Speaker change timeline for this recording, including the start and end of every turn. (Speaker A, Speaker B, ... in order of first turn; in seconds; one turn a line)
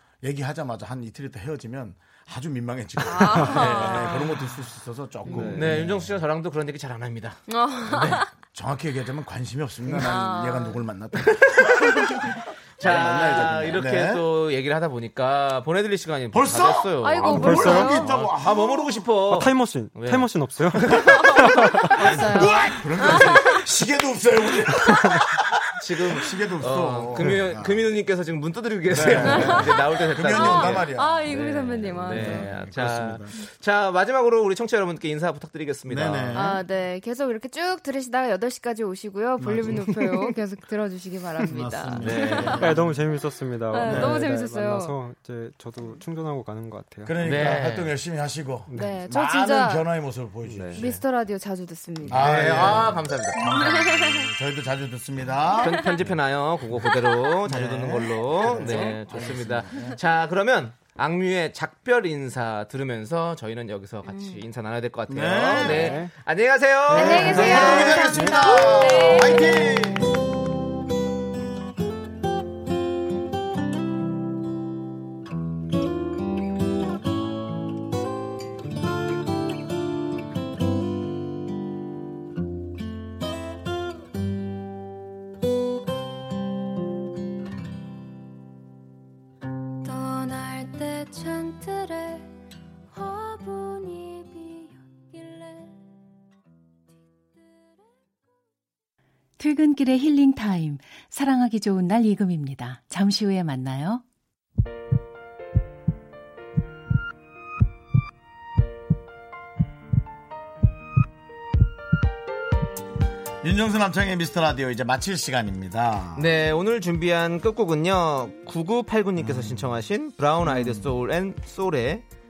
Speaker A: 0.2-6.2
Speaker B: 3.0-4.4
Speaker C: 3.2-3.7
Speaker D: 3.9-4.1
Speaker C: 5.3-5.8
Speaker D: 5.3-8.2
Speaker B: 7.5-8.3
Speaker A: 8.0-14.2
Speaker B: 9.9-10.9
Speaker D: 12.8-21.1
Speaker A: 16.3-19.1
Speaker B: 17.0-18.1
Speaker C: 17.3-18.0
Speaker C: 19.2-22.1
Speaker A: 21.0-21.4
Speaker B: 21.0-23.7
Speaker A: 21.9-27.9
Speaker D: 25.8-36.6
Speaker A: 28.9-31.3
Speaker B: 29.2-29.8
Speaker B: 30.3-32.6
Speaker A: 32.1-33.4
Speaker A: 35.9-36.6
Speaker B: 36.3-42.9
Speaker A: 39.4-39.9
Speaker A: 41.5-43.0
Speaker D: 42.0-42.8
Speaker C: 42.5-47.2
Speaker B: 43.7-45.0
Speaker A: 43.8-44.3
Speaker A: 47.0-51.0
Speaker D: 47.2-48.0
Speaker C: 48.7-49.0
Speaker B: 48.7-49.9
Speaker C: 50.5-51.0
Speaker B: 50.8-52.8
Speaker A: 52.0-56.2
Speaker D: 52.1-53.8
Speaker B: 53.5-54.3
Speaker D: 55.6-68.2
Speaker A: 57.4-60.0
Speaker B: 64.0-64.4
Speaker A: 65.1-66.0
Speaker B: 65.6-66.0
Speaker C: 65.7-66.1
Speaker C: 66.9-68.6
Speaker B: 66.9-69.9
Speaker A: 66.9-70.1
Speaker E: 89.9-92.2
Speaker E: 93.0-95.4
Speaker F: 99.4-104.0
Speaker A: 113.4-116.3
Speaker D: 116.2-122.0
Speaker A: 119.2-119.8
Speaker A: 120.4-120.9